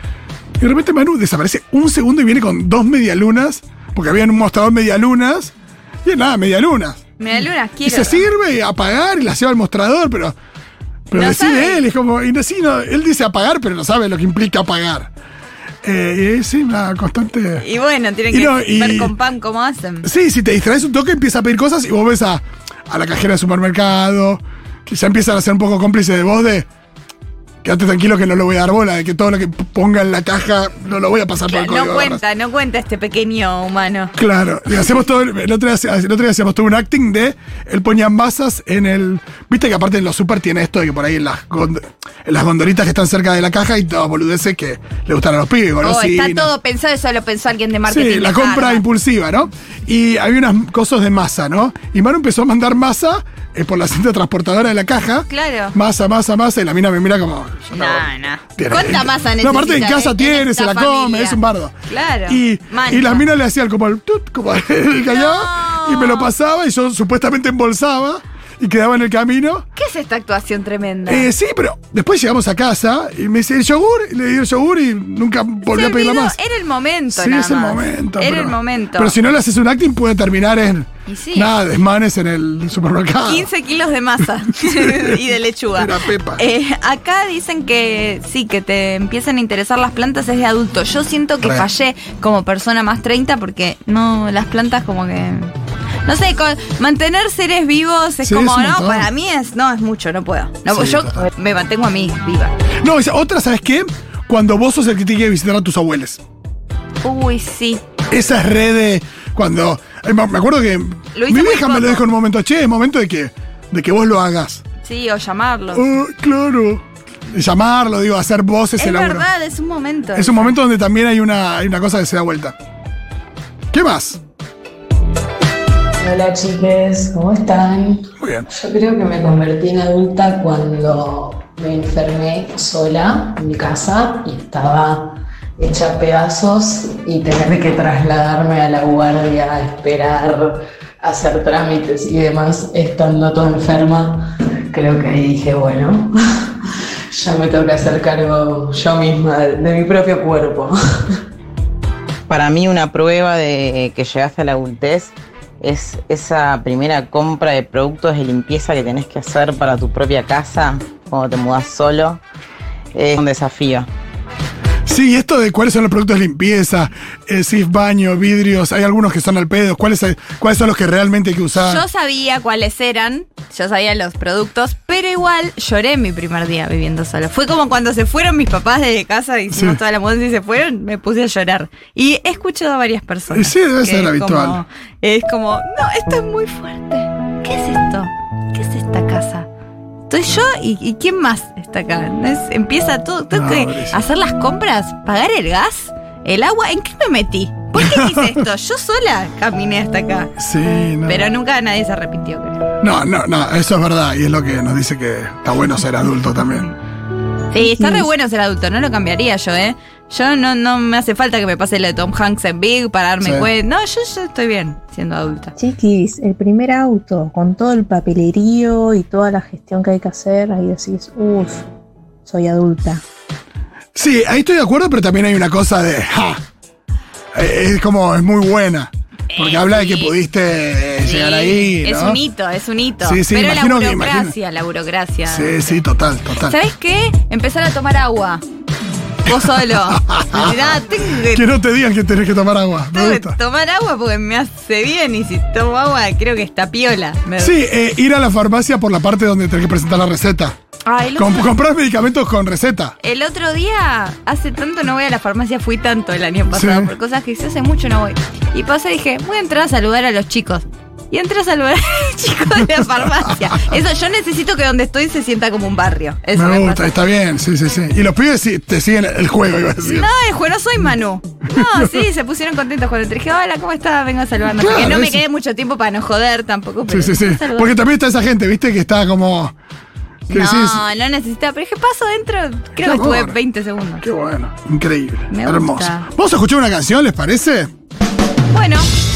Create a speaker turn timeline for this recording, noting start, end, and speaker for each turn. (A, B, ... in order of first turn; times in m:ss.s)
0:00.6-0:05.5 A
0:06.0-0:07.0 A
0:07.2-0:08.3 B
0:07.8-0:10.4 A
0:11.1-0:15.1 A
0:11.1-0:11.9 B
0:15.8-0:17.6 A
0:17.6-0:20.1 B
0:18.3-0:19.1 A
0:20.0-0:26.7 A
0:27.6-0:32.2 A
0:31.4-0:34.1 B
0:34.2-0:46.5 A
0:45.8-0:48.8 B
0:47.9-0:58.1 A
0:55.3-0:55.7 B
0:57.7-1:03.3 B
0:58.6-1:01.8 A
1:02.3-1:09.6 A
1:05.0-1:06.3 B
1:09.8-1:11.3 B
1:11.1-1:16.4 A
1:15.6-1:19.2 B
1:17.1-1:23.5 A
1:21.1-1:21.5 B
1:23.2-1:35.5 B
1:24.5-1:25.2 A
1:25.8-1:26.4 A
1:36.1-1:42.6 B
1:38.2-1:39.1 A
1:40.7-1:41.3 A
1:42.8-1:46.2 A
1:47.0-1:47.8 B
1:48.1-1:54.6 A
1:51.1-1:52.1 B
1:54.8-1:55.9 B
1:55.8-1:59.3 A
1:58.8-2:00.6 B
2:00.2-2:02.6 A
2:03.7-2:04.2 A
2:06.0-2:26.1 C
2:08.2-2:08.5 A
2:27.1-2:30.8 C
2:32.3-2:42.2 D
2:42.9-2:43.9 D
2:44.9-2:51.8 A
2:51.6-3:09.5 B
2:59.5-2:59.8 A
3:03.3-3:04.6 A
3:10.1-3:20.3 B
3:13.3-3:14.0 A
3:17.8-3:18.4 A
3:20.4-3:21.3 A
3:21.1-3:22.6 B
3:22.8-3:26.7 A
3:27.5-3:35.5 B
3:33.2-3:33.5 A
3:35.6-3:41.6 E
3:42.3-3:43.0 E
3:44.0-3:46.4 A
3:47.3-3:52.2 A
3:49.3-3:50.1 B
3:51.0-3:55.8 B
3:53.0-3:54.4 A
3:55.3-3:56.6 A
3:56.4-3:58.4 B
3:59.3-4:01.4 B
3:59.3-4:03.4 A
4:02.9-4:07.6 B
4:07.4-4:10.6 A
4:10.9-4:11.6 B
4:11.2-4:13.0 A
4:13.0-4:26.9 B
4:16.5-4:16.9 A
4:23.3-4:23.7 A
4:26.3-4:30.1 A
4:29.8-4:37.8 B
4:31.5-4:32.0 A
4:34.6-4:35.2 A
4:36.9-4:39.5 A
4:40.3-4:40.8 A
4:40.3-4:44.1 B
4:42.8-4:43.4 A
4:44.0-4:47.7 A
4:45.3-4:46.1 B
4:48.5-4:48.9 B